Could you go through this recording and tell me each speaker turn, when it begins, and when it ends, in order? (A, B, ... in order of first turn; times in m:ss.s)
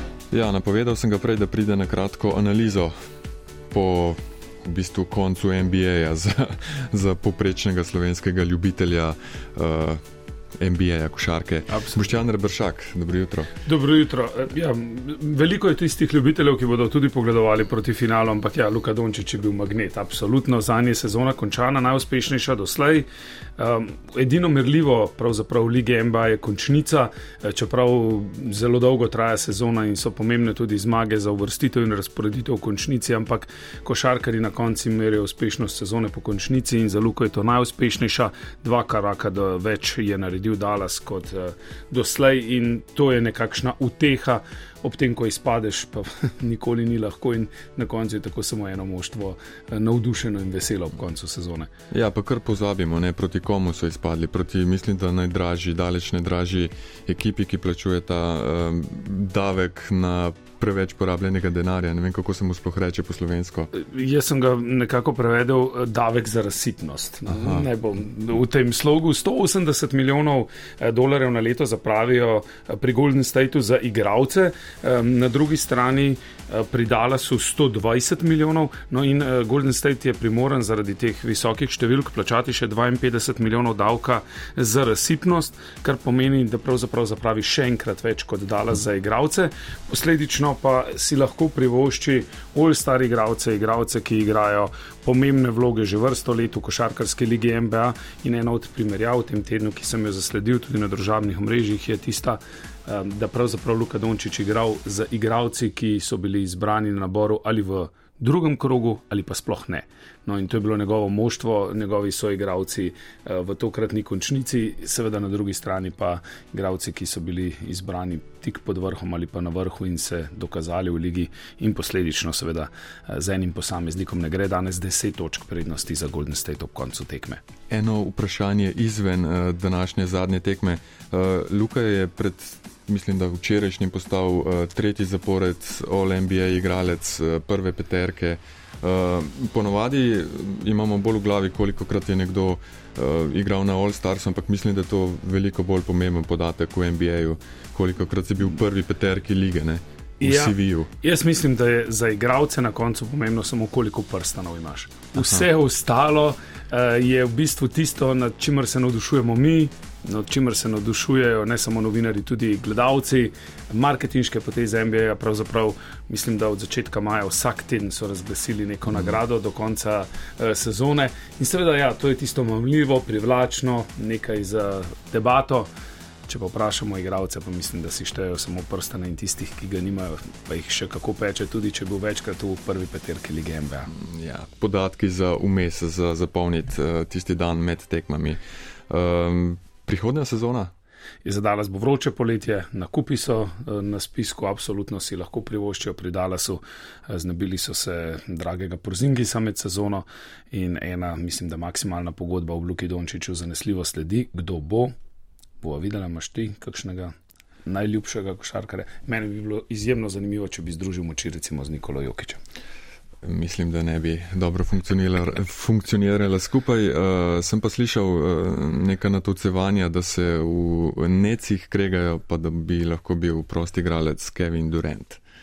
0:00.3-0:02.9 A
0:03.7-0:10.0 A
0:10.6-0:13.5 A
0:11.7-0:12.2 B
0:13.6-0:23.1 B
0:23.6-0:51.7 B
0:51.9-1:03.7 A
1:03.7-2:07.4 B
1:07.3-1:07.6 A
2:07.7-2:30.9 A
2:30.2-2:55.7 B
2:35.2-2:35.5 A
2:56.3-3:03.9 B
3:03.9-3:08.4 A
3:08.9-3:10.7 A
3:11.2-3:24.9 B
3:25.6-3:27.1 B
3:27.7-3:32.4 B
3:33.2-3:45.2 A